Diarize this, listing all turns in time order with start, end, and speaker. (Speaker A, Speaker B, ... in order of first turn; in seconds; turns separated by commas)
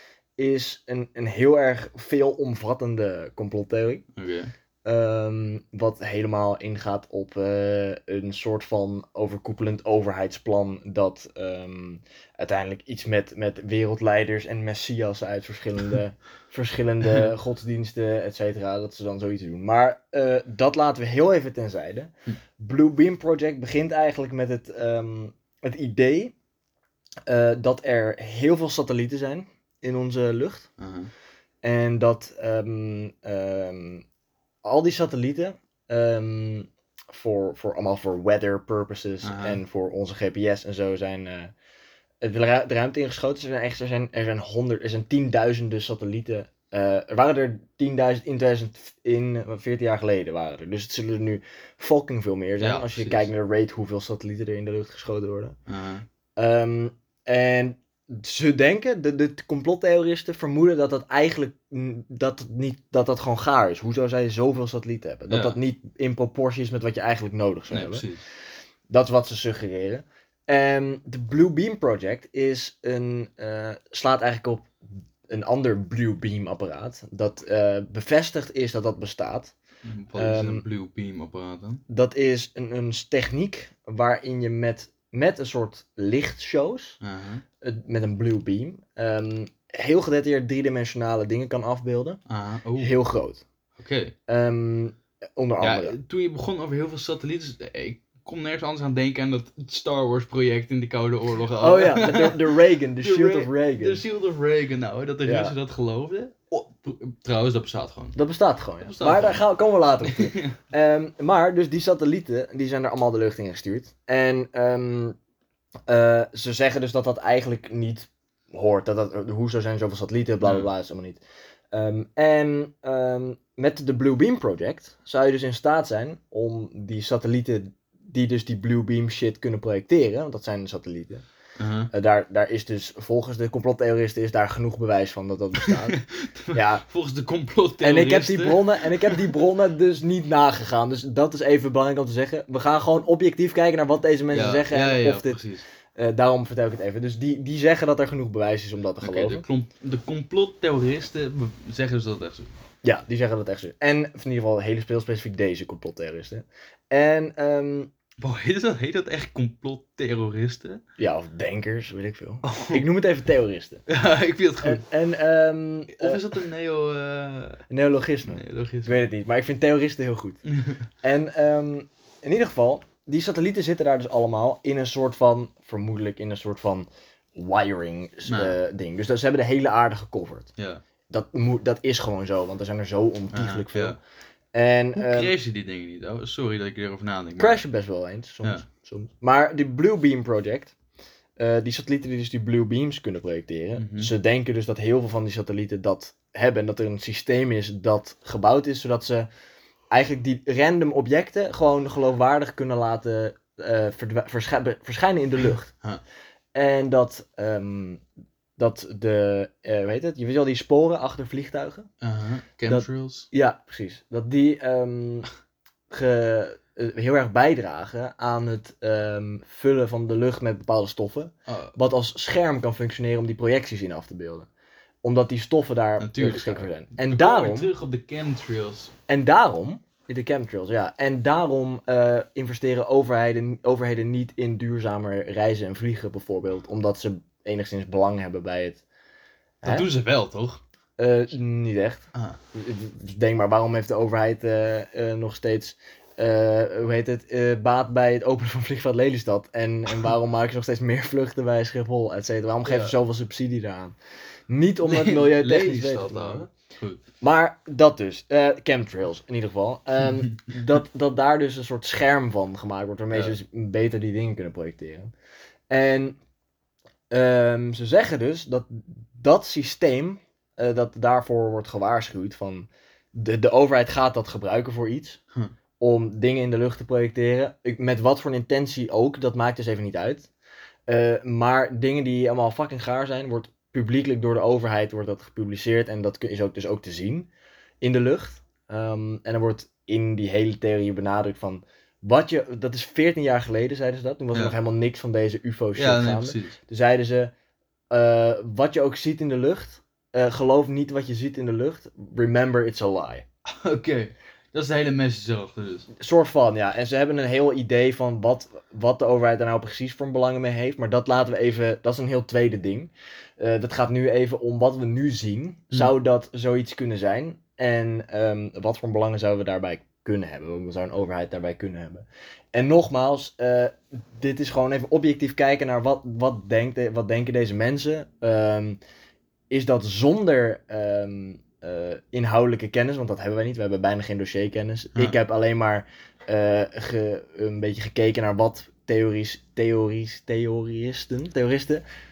Speaker A: 0.4-4.0, Speaker B: 4.2-4.5, Speaker A: 4.8-26.3, Speaker A: 27.3-30.7, Speaker B: 30.8-31.1, Speaker A: 31.6-34.0, Speaker A: 34.6-41.5, Speaker B: 39.2-39.6, Speaker A: 42.2-55.6, Speaker B: 52.6-53.3, Speaker B: 55.7-56.0, Speaker A: 56.4-68.0, Speaker B: 65.3-65.6, Speaker B: 67.7-68.2, Speaker A: 68.9-79.5, Speaker B: 79.8-81.8, Speaker A: 80.2-80.6, Speaker A: 81.9-87.0, Speaker B: 87.0-87.4, Speaker A: 87.6-92.2, Speaker B: 92.3-92.9, Speaker A: 92.8-93.4, Speaker B: 93.8-94.1, Speaker A: 94.3-96.0, Speaker B: 95.6-108.2, Speaker A: 101.6-104.0, Speaker A: 105.2-105.5, Speaker A: 108.2-115.2, Speaker B: 108.8-109.4, Speaker B: 110.0-110.5, Speaker A: 115.9-121.2, Speaker B: 120.4-120.7, Speaker A: 121.7-131.2, Speaker B: 131.6-131.9, Speaker A: 131.9-136.0, Speaker B: 135.7-139.2, Speaker A: 136.5-136.8, Speaker A: 137.8-145.4, Speaker B: 144.3-145.6, Speaker A: 145.9-149.4, Speaker B: 149.0-152.5, Speaker A: 152.8-157.9, Speaker B: 158.2-160.8, Speaker A: 161.0-163.8, Speaker B: 162.4-162.8, Speaker B: 163.9-164.8, Speaker A: 164.6-166.2, Speaker B: 165.9-167.6, Speaker A: 167.7-170.4, Speaker B: 168.3-169.0, Speaker B: 170.4-170.8, Speaker A: 171.0-180.5, Speaker B: 178.2-178.6, Speaker B: 180.6-180.8, Speaker A: 181.1-184.0, Speaker B: 183.3-184.0, Speaker A: 184.5-185.3, Speaker B: 184.9-187.6, Speaker A: 187.4-190.7, Speaker A: 191.4-199.3, Speaker B: 193.8-194.1, Speaker A: 199.9-205.7, Speaker A: 206.5-208.0, Speaker A: 208.6-211.9, Speaker B: 212.0-213.3, Speaker A: 212.7-215.3, Speaker A: 215.9-224.5, Speaker B: 221.5-221.7, Speaker A: 225.0-227.7, Speaker B: 226.0-228.9, Speaker A: 229.1-238.8, Speaker A: 239.6-239.9, Speaker B: 239.6-240.6, Speaker A: 241.0-253.9, Speaker B: 252.7-252.9, Speaker A: 254.5-256.5, Speaker B: 254.8-257.0, Speaker A: 257.2-265.1, Speaker A: 265.7-266.2, Speaker A: 267.1-275.2, Speaker A: 275.8-280.3, Speaker A: 280.9-287.3, Speaker A: 287.8-297.3, Speaker B: 295.8-296.6, Speaker A: 297.9-303.2, Speaker B: 303.5-305.9, Speaker A: 306.0-328.8, Speaker A: 329.5-341.8